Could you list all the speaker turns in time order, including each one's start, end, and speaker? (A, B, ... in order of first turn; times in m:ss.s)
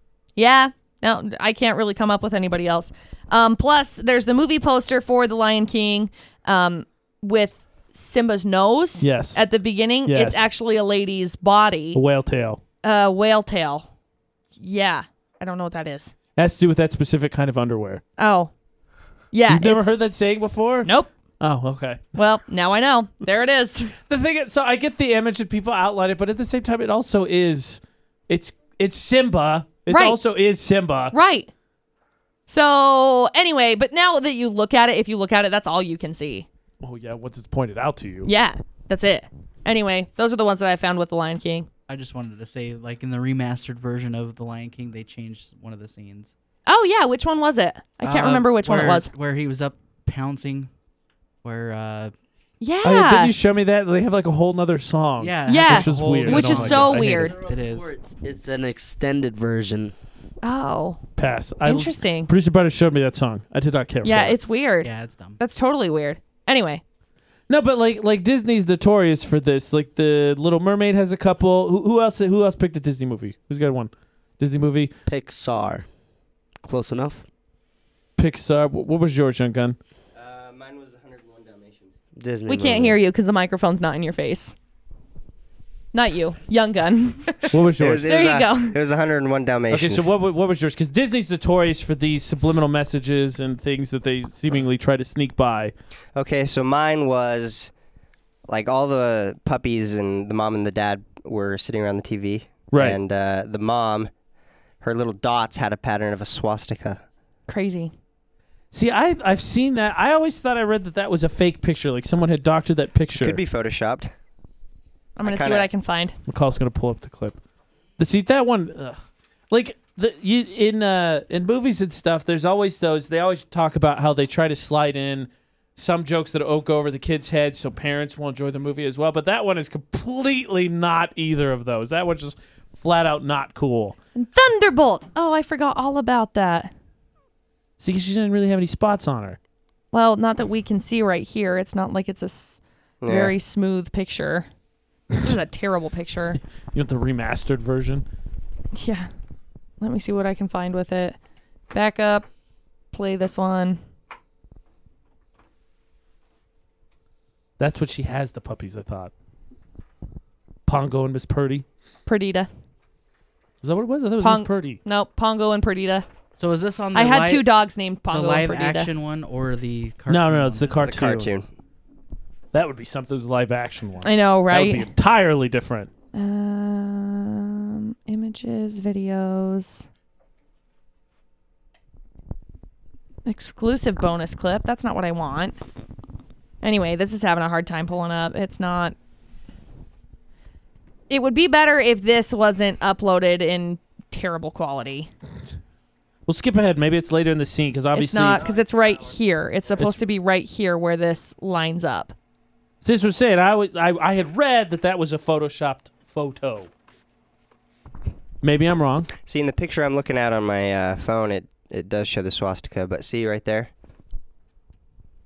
0:00.4-0:12.0 A
0:09.0-0:09.4 B
0:10.1-0:10.5 B
0:11.9-0:12.6 B
0:12.8-0:13.9 A
0:14.6-0:16.2 A
0:16.4-0:18.0 B
0:18.2-0:18.5 A
0:19.3-0:20.0 A
0:19.5-0:22.1 B
0:20.8-0:21.1 A
0:22.2-0:23.9 A
0:24.1-0:31.1 B
0:29.9-0:30.2 A
0:31.1-0:31.5 A
0:32.5-0:36.5 A
0:36.8-0:38.3 B
0:38.3-0:41.7 A
0:41.9-0:46.3 C
0:46.7-0:49.1 A
0:48.0-0:50.7 C
0:51.4-0:52.1 C
0:52.6-0:53.3 A
0:52.8-0:57.3 B
0:55.2-0:57.9 C
0:55.5-0:57.4 A
0:57.2-0:59.9 D
1:00.4-1:01.0 A
1:01.2-1:04.4 B
1:01.6-1:02.3 A
1:04.0-1:06.8 A
1:04.8-1:05.4 C
1:07.5-1:14.9 B
1:15.1-1:15.9 D
1:16.6-1:17.2 D
1:18.2-1:19.8 B
1:20.2-1:21.9 E
1:22.2-1:23.0 D
1:22.5-1:24.6 A
1:25.9-1:27.4 A
1:27.5-1:28.1 B
1:27.8-1:30.1 E
1:28.0-1:28.8 A
1:29.7-1:35.7 B
1:36.2-1:37.7 E
1:38.5-1:44.1 E
1:42.7-1:43.0 B
1:44.8-1:47.0 E
1:47.5-1:47.9 A
1:48.7-1:53.4 B
1:53.2-1:54.1 E
1:55.2-1:56.2 A
1:55.2-1:55.7 E
1:56.3-1:57.4 B
1:58.0-1:59.0 B
1:59.5-2:14.0 B
2:14.2-2:16.7 A
2:17.8-2:19.4 B
2:19.9-2:24.5 A
2:23.0-2:23.3 E
2:25.1-2:26.4 A
2:26.7-2:28.1 B
2:28.8-2:29.1 A
2:29.8-2:31.2 A
2:31.7-2:32.3 A
2:32.9-2:33.8 A
2:37.6-2:39.1 B
2:40.7-2:41.7 B
2:42.1-2:42.5 A
2:43.6-2:44.8 B
2:44.2-2:46.1 A
2:46.4-2:47.5 C
2:46.9-2:48.9 A
2:48.1-2:50.9 C
2:50.1-2:51.3 B
2:50.8-2:51.5 E
2:52.5-2:55.9 B
2:54.0-2:54.9 A
2:56.1-2:59.9 A
3:03.3-3:05.6 A
3:06.6-3:09.0 A
3:11.1-3:15.1 A
3:16.3-3:18.4 B
3:17.9-3:22.2 A
3:19.8-3:20.0 B
3:22.8-3:26.7 B
3:28.4-3:29.1 B
3:29.2-3:33.7 E